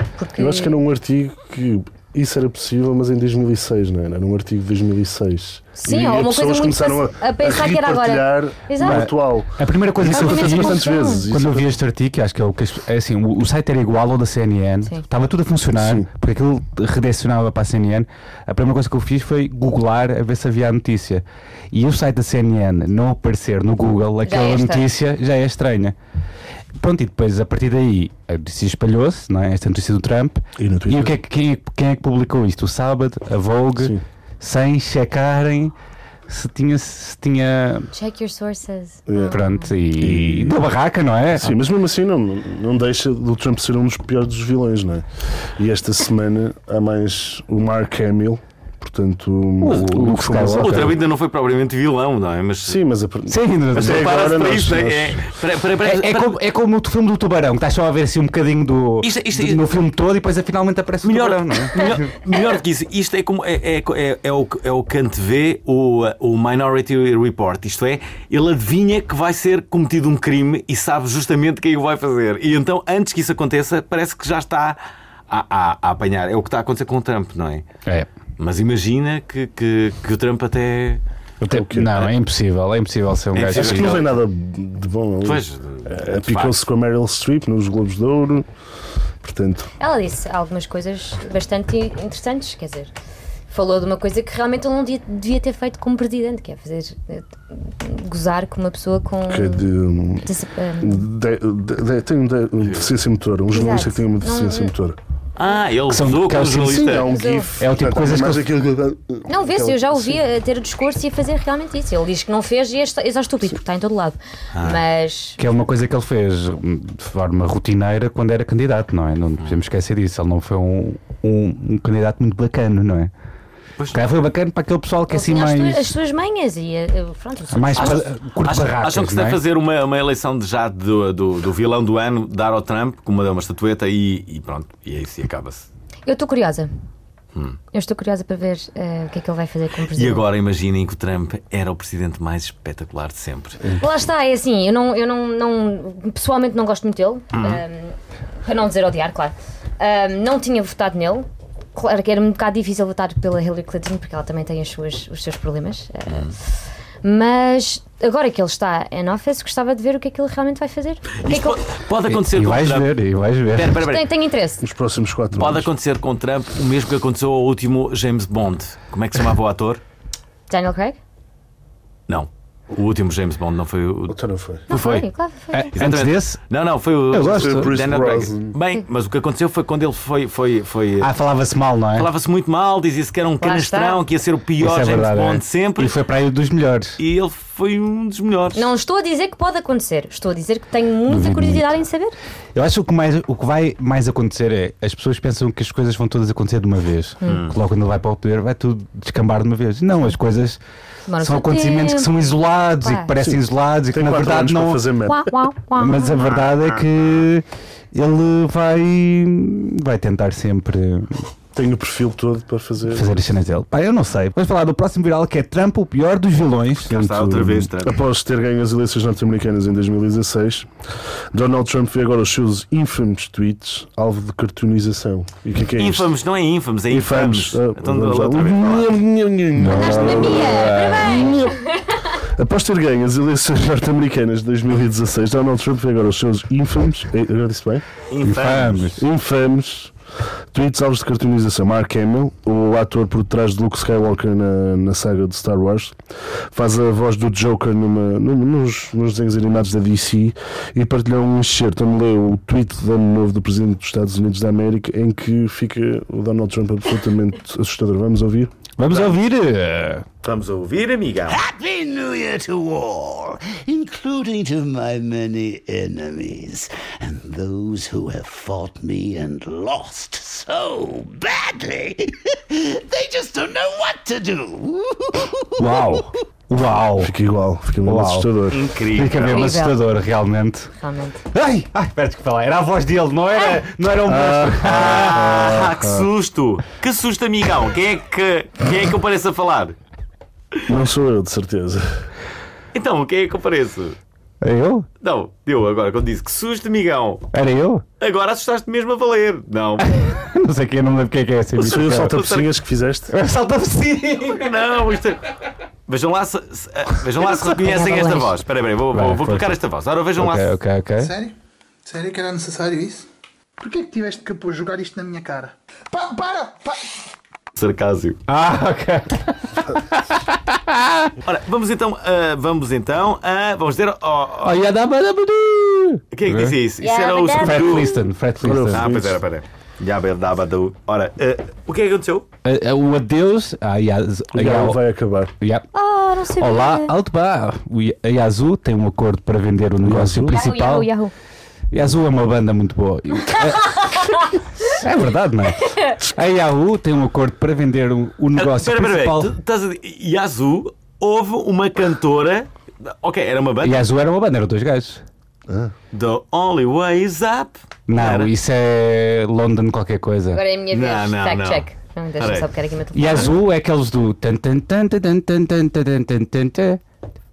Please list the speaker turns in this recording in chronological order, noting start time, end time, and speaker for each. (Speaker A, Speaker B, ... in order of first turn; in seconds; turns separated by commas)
Speaker A: 0.2-0.8, Speaker B: 0.4-11.7, Speaker A: 5.8-9.1, Speaker C: 8.8-26.0, Speaker A: 10.1-11.2, Speaker B: 15.8-16.1, Speaker A: 24.2-24.9, Speaker C: 26.8-35.8, Speaker B: 30.6-31.2, Speaker C: 36.3-37.9, Speaker A: 37.9-39.7, Speaker B: 39.1-39.4, Speaker C: 39.3-41.6, Speaker B: 40.0-40.6, Speaker B: 41.4-51.0, Speaker C: 49.6-51.0, Speaker D: 50.5-52.8, Speaker B: 52.7-55.3, Speaker C: 53.3-54.4, Speaker D: 53.7-56.4, Speaker C: 55.8-62.1, Speaker D: 59.0-59.6, Speaker D: 61.0-77.7, Speaker D: 78.4-81.0, Speaker C: 81.4-84.0, Speaker B: 81.5-82.1, Speaker D: 83.3-84.2, Speaker B: 83.5-88.5, Speaker D: 85.2-86.6, Speaker B: 89.2-89.7, Speaker A: 89.8-92.9, Speaker A: 93.5-99.7, Speaker B: 99.3-100.3, Speaker A: 100.2-101.0, Speaker B: 100.8-105.0, Speaker A: 103.5-104.7, Speaker D: 105.4-107.1, Speaker C: 105.9-107.0, Speaker B: 106.6-110.2, Speaker A: 107.1-107.5, Speaker C: 107.6-108.5, Speaker A: 109.3-115.4, Speaker D: 114.5-114.8, Speaker C: 115.4-123.1, Speaker D: 123.8-124.0, Speaker C: 123.9-126.0, Speaker A: 125.1-128.0, Speaker C: 127.5-129.4, Speaker D: 127.8-135.7, Speaker A: 136.1-136.7, Speaker A: 137.7-140.2, Speaker D: 139.9-143.6, Speaker A: 143.8-156.3, Speaker D: 147.3-147.6, Speaker A: 157.0-161.6, Speaker D: 161.2-162.9, Speaker C: 162.1-163.8, Speaker D: 163.5-164.1, Speaker A: 163.8-164.6, Speaker B: 164.6-165.7, Speaker D: 165.3-169.8, Speaker A: 170.5-171.0, Speaker D: 172.1-174.2, Speaker B: 174.1-174.6, Speaker D: 174.7-175.1, Speaker A: 174.7-175.7, Speaker C: 175.5-176.4, Speaker D: 175.8-181.1, Speaker C: 177.1-177.8, Speaker B: 177.2-178.6, Speaker C: 181.0-182.1, Speaker D: 181.9-186.0, Speaker A: 183.4-184.0, Speaker C: 184.6-187.0, Speaker D: 187.0-188.7, Speaker A: 188.5-192.2, Speaker C: 191.1-191.7, Speaker C: 192.6-200.6, Speaker D: 197.2-197.6, Speaker A: 201.1-202.1, Speaker C: 201.2-204.8, Speaker A: 202.8-203.1, Speaker B: 203.2-205.3, Speaker A: 205.1-206.2, Speaker C: 205.8-211.2, Speaker D: 206.2-207.2, Speaker B: 211.5-213.1, Speaker C: 212.9-216.9, Speaker D: 216.8-218.0, Speaker B: 216.9-220.7, Speaker B: 221.3-226.1, Speaker D: 225.8-229.0, Speaker B: 226.9-231.6, Speaker C: 229.6-231.0, Speaker A: 229.7-231.9, Speaker B: 232.2-237.9, Speaker D: 238.1-238.9, Speaker C: 238.2-239.1, Speaker B: 239.0-239.9, Speaker B: 240.5-246.0, Speaker B: 246.5-258.5, Speaker C: 258.8-260.1, Speaker D: 258.9-259.1, Speaker D: 260.2-261.4, Speaker E: 261.3-276.1, Speaker C: 275.6-277.1, Speaker B: 277.0-278.6, Speaker C: 277.8-278.3, Speaker D: 278.5-279.5, Speaker C: 278.9-280.7, Speaker A: 279.2-279.8, Speaker A: 280.8-281.2, Speaker C: 281.3-285.4, Speaker B: 284.1-286.1, Speaker D: 284.6-289.8, Speaker B: 290.7-291.9, Speaker D: 292.7-294.0, Speaker C: 294.4-294.9, Speaker D: 295.0-297.3, Speaker C: 297.3-297.9, Speaker D: 298.0-300.0, Speaker C: 299.8-302.2, Speaker D: 301.6-302.5, Speaker B: 301.6-303.1, Speaker C: 303.1-304.5, Speaker D: 304.2-305.2, Speaker D: 305.9-310.5, Speaker C: 307.2-308.3, Speaker C: 308.9-309.6, Speaker C: 310.2-311.2, Speaker F: 311.9-313.0, Speaker F: 313.6-315.4, Speaker D: 317.6-318.2, Speaker C: 318.3-321.1, Speaker D: 321.2-324.6, Speaker C: 324.4-326.6, Speaker D: 326.1-328.0, Speaker A: 326.8-327.7, Speaker C: 327.4-328.9, Speaker B: 328.4-329.2, Speaker D: 328.7-332.3, Speaker C: 332.4-334.8, Speaker B: 334.4-335.3, Speaker C: 335.4-335.7, Speaker A: 335.7-336.9, Speaker C: 336.4-340.9, Speaker B: 339.8-340.4, Speaker A: 340.3-341.1, Speaker C: 341.7-349.4, Speaker D: 348.4-353.9, Speaker C: 353.6-355.0, Speaker B: 355.5-355.7, Speaker D: 355.9-358.3, Speaker C: 357.9-360.4, Speaker A: 360.3-363.4, Speaker D: 360.7-361.7, Speaker D: 362.2-362.5, Speaker C: 362.9-366.8